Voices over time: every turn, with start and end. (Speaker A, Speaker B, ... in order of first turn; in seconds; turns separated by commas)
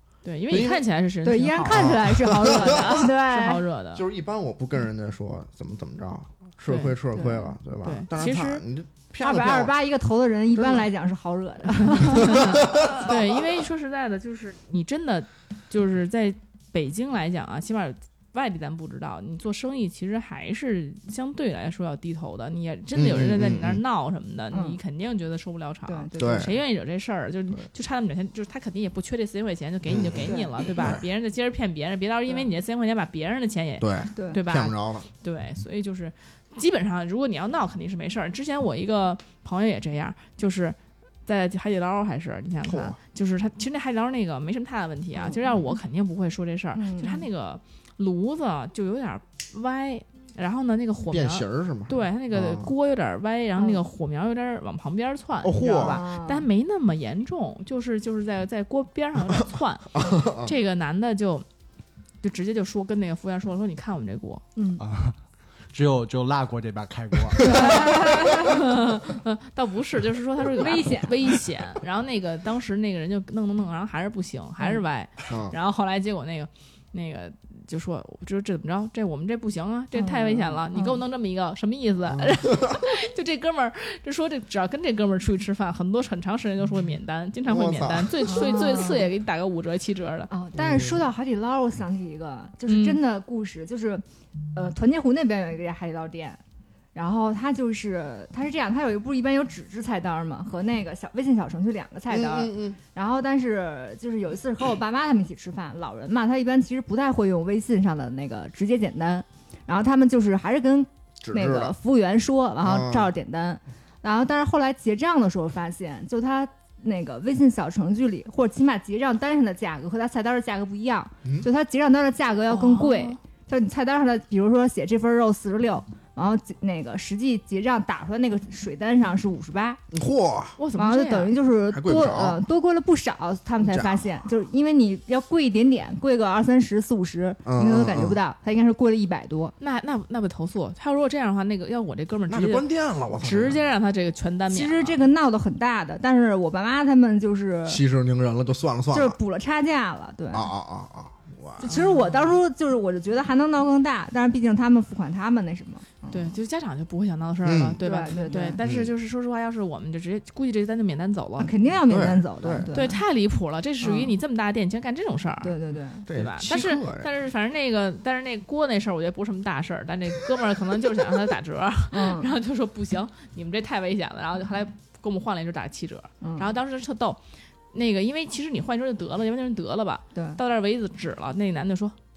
Speaker A: 0.2-4.0, Speaker B: 0.5-0.8, Speaker C: 1.2-3.6, Speaker B: 1.6-3.0, Speaker B: 3.9-9.7, Speaker A: 6.7-7.0, Speaker C: 7.1-7.5, Speaker A: 7.8-8.6, Speaker C: 9.2-12.5, Speaker B: 10.5-10.9, Speaker A: 11.9-61.5, Speaker B: 12.1-13.4, Speaker B: 22.9-23.8, Speaker C: 24.5-24.8, Speaker C: 25.9-26.5, Speaker B: 26.2-26.5, Speaker B: 29.9-31.0, Speaker B: 33.8-35.0, Speaker C: 34.1-34.4, Speaker B: 42.6-43.0, Speaker C: 46.8-47.2, Speaker B: 51.1-52.7, Speaker B: 55.4-56.0, Speaker C: 55.8-56.5, Speaker B: 59.9-60.5, Speaker A: 62.2-64.4, Speaker C: 64.5-64.8, Speaker D: 64.8-65.2, Speaker D: 65.7-68.0, Speaker A: 67.4-90.3, Speaker C: 67.7-68.3, Speaker C: 70.5-71.1, Speaker B: 75.3-75.5, Speaker C: 80.0-81.0, Speaker B: 82.1-82.8, Speaker B: 87.5-88.8, Speaker C: 88.2-89.1, Speaker C: 90.3-94.0, Speaker B: 90.5-91.0, Speaker A: 92.7-93.0, Speaker C: 94.5-96.4, Speaker C: 96.9-129.8, Speaker B: 102.1-102.8, Speaker B: 111.2-111.7, Speaker B: 112.6-113.1, Speaker A: 122.5-123.2, Speaker B: 129.9-130.6, Speaker A: 130.6-131.3, Speaker C: 130.8-139.5, Speaker B: 131.7-132.4, Speaker B: 133.6-134.1, Speaker B: 137.4-138.2, Speaker A: 139.6-142.7, Speaker B: 142.3-143.6, Speaker A: 143.2-145.0, Speaker C: 144.5-147.8, Speaker B: 147.7-149.2, Speaker C: 148.9-150.5, Speaker B: 150.3-151.8, Speaker C: 151.6-156.3, Speaker A: 151.6-152.4, Speaker A: 156.1-161.5, Speaker B: 157.4-157.8, Speaker C: 157.8-158.6, Speaker B: 158.6-158.9, Speaker C: 161.4-163.0, Speaker B: 161.9-162.7, Speaker A: 162.7-165.5, Speaker C: 163.8-164.1, Speaker C: 165.4-166.1, Speaker B: 166.1-167.1, Speaker A: 166.1-177.2, Speaker C: 171.9-172.3, Speaker C: 176.2-176.5, Speaker A: 177.7-181.9